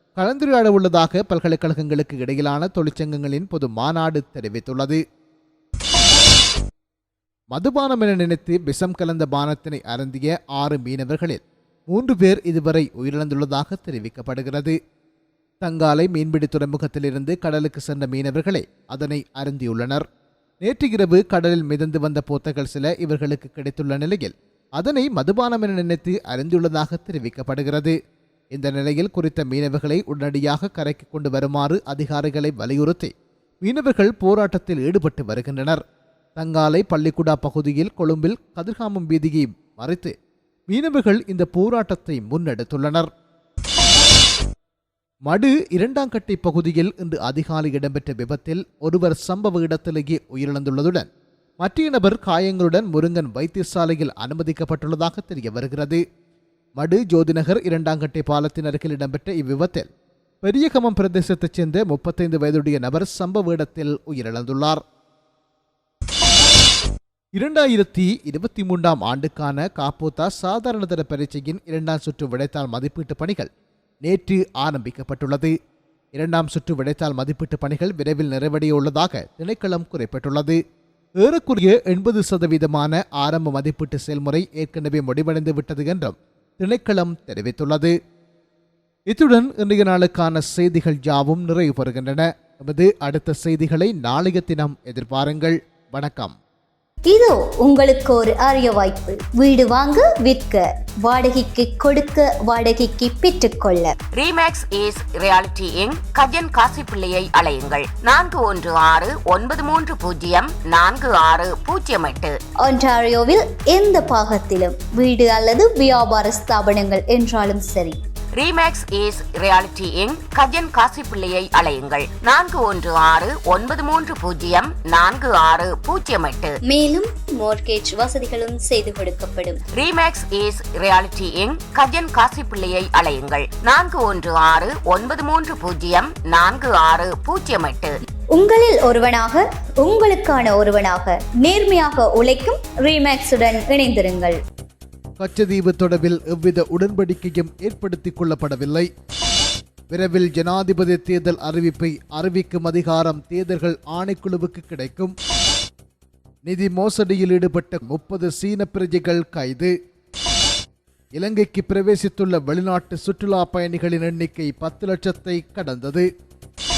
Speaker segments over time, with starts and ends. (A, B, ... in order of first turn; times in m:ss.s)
0:00.2-0:05.0 A
0:07.5-0:14.8 A
0:15.6-0:20.0 A
0:20.6-0:28.0 A
0:28.5-0:35.8 A
0:36.4-0:40.1 A
0:40.7-0:43.1 A
0:45.3-0:51.1 A
0:51.6-0:56.0 A
0:56.8-0:59.9 A
1:00.4-1:04.8 A
1:07.4-1:13.5 A
1:14.0-1:15.5 A
1:16.1-1:20.6 A
1:21.2-1:27.9 A
1:29.1-1:36.3 A
1:37.1-1:44.0 B
1:44.1-1:52.4 C
1:52.6-1:58.0 B
1:58.4-2:06.6 C
2:06.6-2:09.6 B
2:09.8-2:17.9 C
2:18.3-2:24.4 B
2:25.2-2:28.9 A
2:29.9-2:35.1 A
2:36.4-2:39.7 A
2:41.2-2:46.1 A